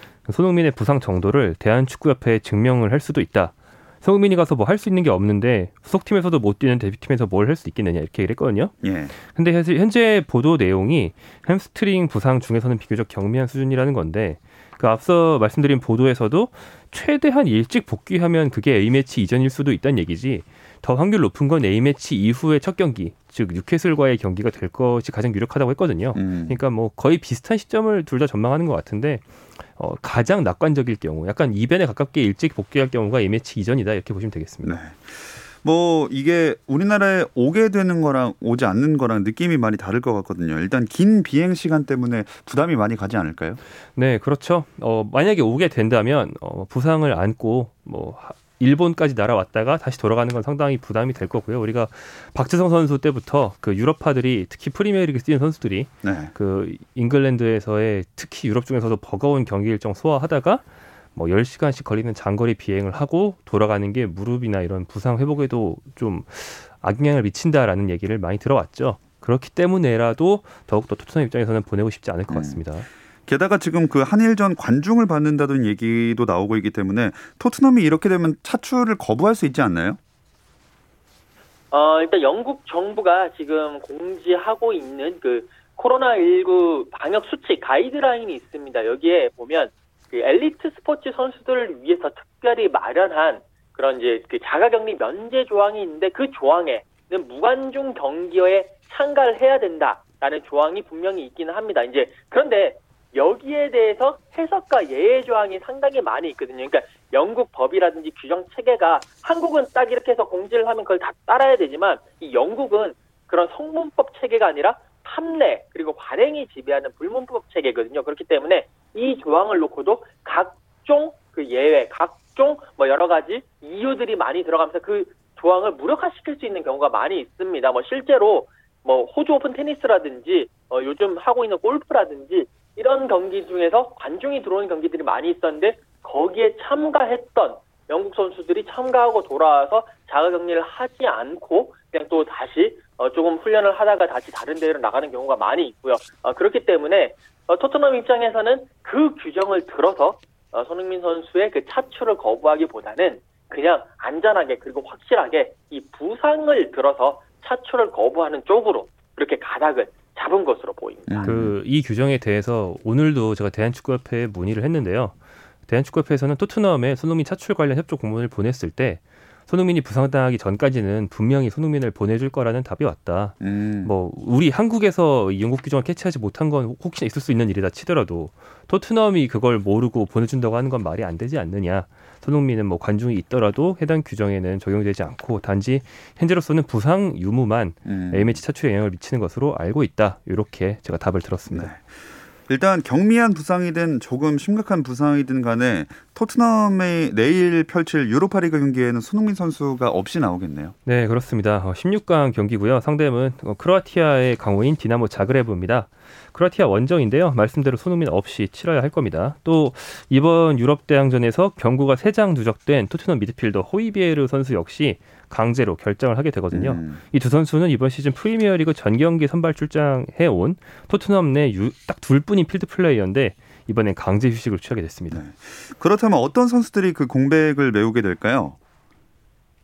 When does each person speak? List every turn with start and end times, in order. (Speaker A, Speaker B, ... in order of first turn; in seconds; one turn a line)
Speaker A: 0.2-8.7
Speaker B: 8.8-9.1
Speaker A: 9.3-29.2
Speaker B: 26.1-26.6
Speaker A: 29.8-34.8
Speaker B: 34.6-43.6
Speaker A: 44.0-60.6
Speaker B: 56.0-56.3
Speaker A: 61.1-72.9
Speaker B: 72.3-72.6
Speaker B: 73.3-80.0
Speaker C: 81.7-161.3
Speaker B: 161.1-161.6
Speaker A: 161.2-165.2
Speaker A: 165.7-191.7
Speaker B: 173.4-173.9
Speaker B: 187.9-188.4
Speaker B: 191.5-191.8
Speaker B: 192.5-200.7
Speaker A: 200.8-225.2
Speaker B: 216.5-217.0
Speaker B: 225.1-228.6